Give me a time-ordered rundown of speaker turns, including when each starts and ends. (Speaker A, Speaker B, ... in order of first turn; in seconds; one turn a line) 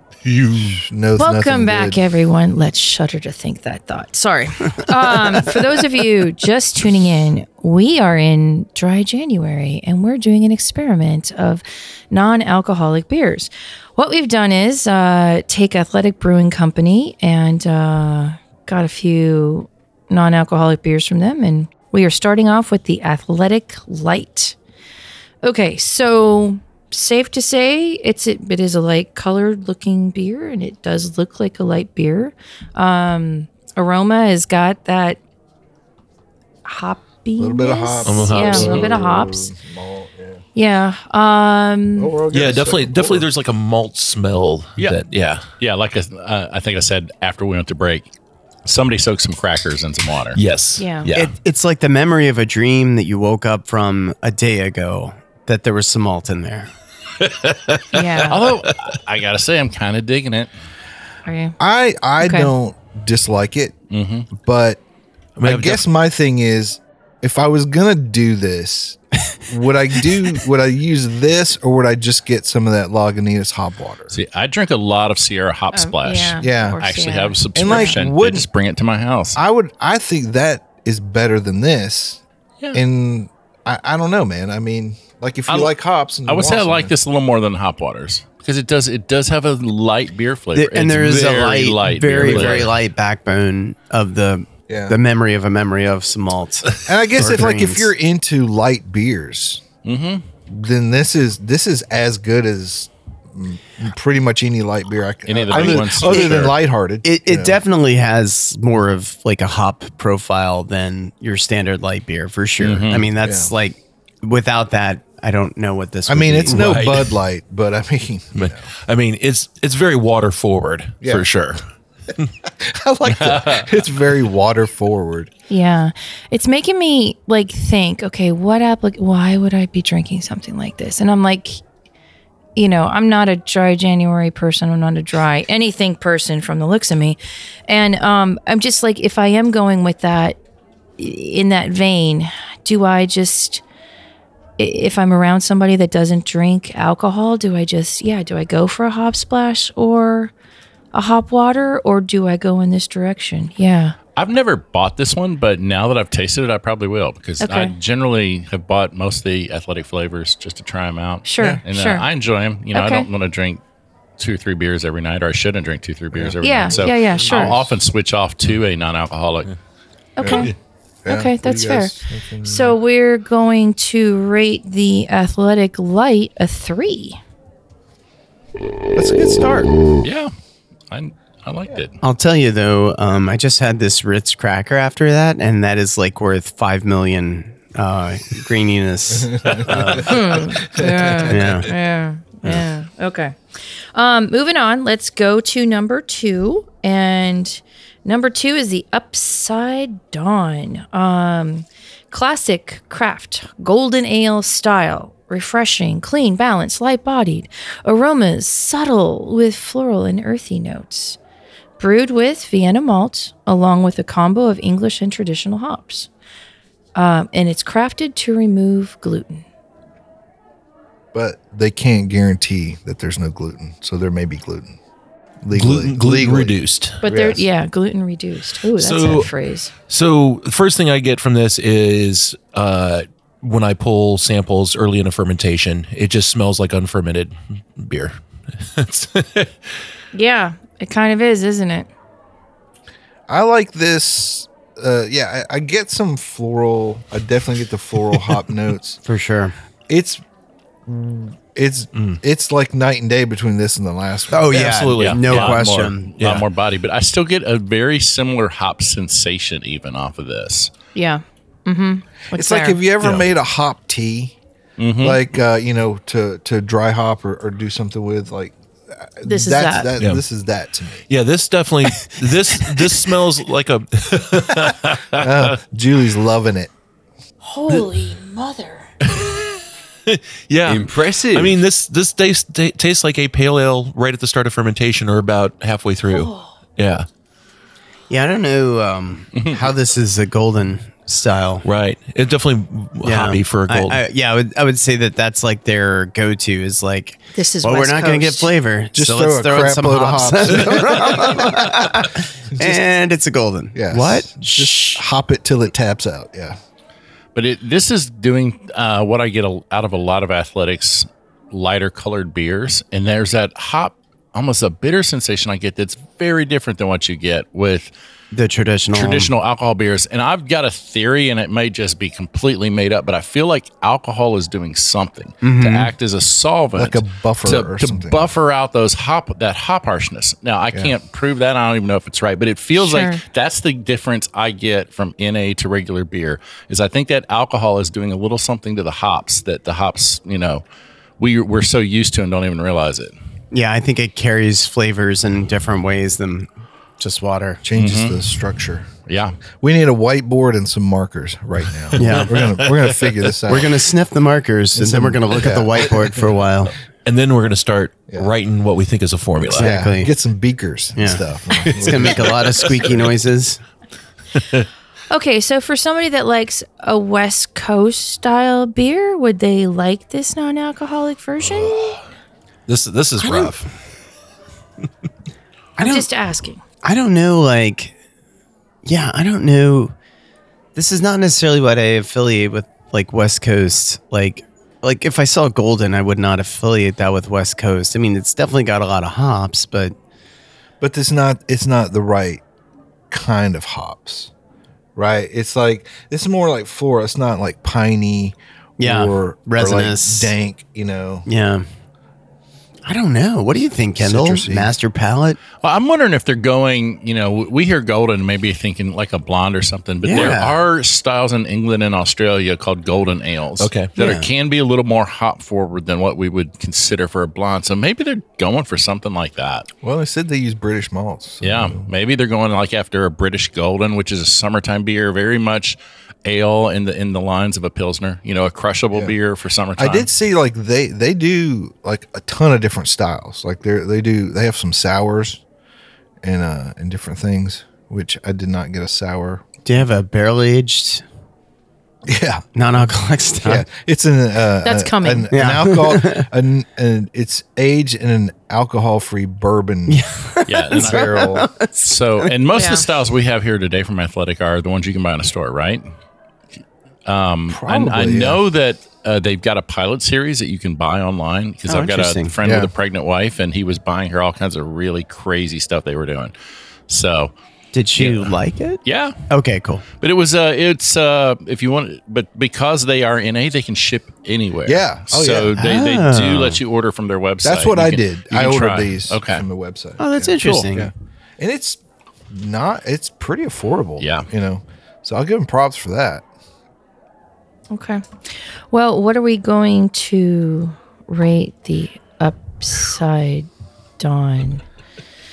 Speaker A: 0.3-0.8
Speaker B: 0.7-2.0
Speaker C: 1.2-24.6
Speaker C: 25.4-35.2
Speaker C: 36.6-39.5
Speaker B: 37.4-40.4
Speaker A: 38.0-38.8
Speaker D: 38.6-38.9
Speaker C: 40.5-42.1
Speaker B: 42.0-43.3
Speaker A: 42.3-45.5
Speaker D: 45.6-48.1
Speaker D: 48.7-50.4
Speaker A: 50.3-51.4
Speaker C: 50.8-51.1
Speaker E: 51.1-56.7
Speaker A: 57.2-59.0
Speaker C: 57.9-58.4
Speaker D: 58.3-60.5
Speaker C: 61.3-61.5
Speaker B: 61.6-63.8
Speaker C: 62.2-62.5
Speaker D: 63.9-64.3
Speaker B: 64.3-64.8
Speaker A: 65.4-65.8
Speaker B: 65.4-74.2
Speaker D: 74.1-79.4
Speaker C: 75.7-78.0
Speaker B: 76.4-76.8
Speaker B: 77.5-78.5
Speaker B: 79.4-82.2
Speaker B: 82.7-86.9
Speaker D: 85.5-92.8
Speaker E: 90.5-97.9
Speaker B: 92.3-92.5
Speaker B: 94.7-95.0
Speaker B: 96.8-99.6
Speaker D: 99.8-100.2
Speaker B: 100.5-107.6
Speaker D: 105.3-106.5
Speaker E: 106.1-106.5
Speaker E: 107.0-116.8
Speaker D: 112.6-113.1
Speaker B: 113.2-113.5
Speaker B: 116.1-118.7
Speaker A: 116.5-117.2
Speaker A: 118.4-121.6
Speaker B: 122.5-125.3
Speaker C: 125.5-131.6
Speaker C: 132.6-140.4
Speaker C: 141.0-143.6
Speaker C: 144.6-150.3
Speaker C: 150.9-154.0
Speaker D: 154.2-163.6
Speaker C: 157.4-157.7
Speaker C: 161.2-162.1
Speaker C: 162.7-163.1
Speaker D: 164.2-169.5
Speaker B: 166.1-167.7
Speaker C: 166.4-167.6
Speaker C: 170.2-170.5
Speaker B: 170.2-170.5
Speaker B: 171.1-172.8
Speaker C: 171.1-177.2
Speaker B: 178.9-179.7
Speaker D: 180.0-180.3
Speaker D: 180.9-182.0
Speaker E: 182.0-190.4
Speaker B: 189.1-190.1
Speaker C: 190.0-211.2
Speaker B: 190.7-191.5
Speaker E: 191.3-191.7
Speaker C: 211.8-216.1
Speaker C: 216.9-219.4
Speaker B: 221.1-224.8
Speaker B: 225.4-227.4
Speaker A: 225.5-227.0
Speaker C: 227.0-229.7
Speaker A: 228.8-229.3
Speaker A: 229.9-239.6
Speaker C: 240.1-241.9
Speaker B: 243.3-249.0
Speaker E: 249.1-249.6
Speaker B: 249.9-250.2
Speaker B: 250.9-254.6
Speaker A: 251.9-252.2
Speaker E: 254.3-256.2
Speaker A: 254.4-256.4
Speaker D: 255.0-260.7
Speaker C: 260.9-262.8
Speaker B: 262.3-264.4
Speaker A: 263.0-263.3
Speaker D: 264.8-265.2
Speaker B: 265.0-271.1
Speaker C: 269.2-269.9
Speaker A: 270.0-270.2
Speaker A: 271.1-275.5
Speaker E: 272.1-273.0
Speaker B: 275.1-276.7
Speaker C: 277.4-278.9
Speaker A: 279.0-287.1
Speaker C: 286.1-286.5
Speaker E: 288.1-291.6
Speaker D: 289.4-289.6
Speaker A: 291.6-294.0
Speaker E: 293.0-305.0
Speaker C: 297.4-298.5
Speaker B: 298.9-301.6
Speaker B: 302.6-302.8
Speaker B: 303.8-306.6
Speaker D: 307.4-317.9
Speaker E: 318.3-319.3
Speaker D: 318.9-340.6
Speaker E: 325.4-325.9
Speaker B: 326.8-328.3
Speaker C: 332.8-333.2
Speaker D: 341.2-343.1
Speaker E: 343.5-347.6
Speaker B: 347.6-348.9
Speaker D: 347.8-348.3
Speaker D: 349.1-349.4
Speaker B: 349.6-353.8
Speaker A: 351.9-353.0
Speaker E: 352.0-352.4
Speaker E: 353.5-356.8
Speaker B: 354.8-356.2
Speaker A: 357.1-359.8
Speaker E: 359.5-360.1
Speaker B: 359.5-362.8
Speaker E: 361.0-363.6
Speaker A: 361.7-362.9
Speaker C: 365.1-372.0
Speaker A: 371.5-372.0
Speaker A: 372.7-373.7
Speaker E: 373.2-373.5
Speaker E: 375.8-376.1
Speaker C: 375.8-376.6
Speaker E: 376.8-377.9
Speaker E: 378.9-379.9
Speaker E: 380.8-389.9
Speaker B: 390.8-392.4
Speaker B: 393.1-394.3
Speaker B: 395.0-401.3
Speaker E: 398.8-400.3
Speaker E: 401.3-401.7
Speaker E: 402.9-405.4
Speaker B: 404.0-404.7
Speaker D: 405.6-419.7
Speaker E: 410.0-410.6
Speaker A: 413.6-413.9
Speaker E: 414.0-414.3
Speaker B: 419.8-421.9
Speaker D: 421.4-430.1
Speaker B: 429.8-435.4
Speaker B: 436.2-439.4
Speaker E: 439.6-441.0
Speaker B: 442.1-442.9
Speaker E: 442.6-443.6
Speaker B: 443.4-450.1
Speaker C: 444.6-445.3
Speaker E: 445.3-446.3
Speaker E: 449.9-452.3
Speaker D: 450.5-455.9
Speaker B: 450.7-451.5
Speaker C: 452.6-452.8
Speaker D: 457.1-466.3
Speaker B: 457.5-458.4
Speaker E: 461.7-462.3
Speaker B: 462.4-462.7
Speaker D: 466.9-467.3
Speaker E: 467.7-469.8
Speaker D: 468.0-469.3
Speaker D: 470.0-479.4
Speaker B: 474.7-475.6
Speaker E: 475.6-476.6
Speaker B: 477.4-486.2
Speaker E: 480.0-480.9
Speaker D: 480.4-480.7
Speaker D: 484.0-484.3
Speaker C: 487.7-493.5
Speaker C: 494.0-494.6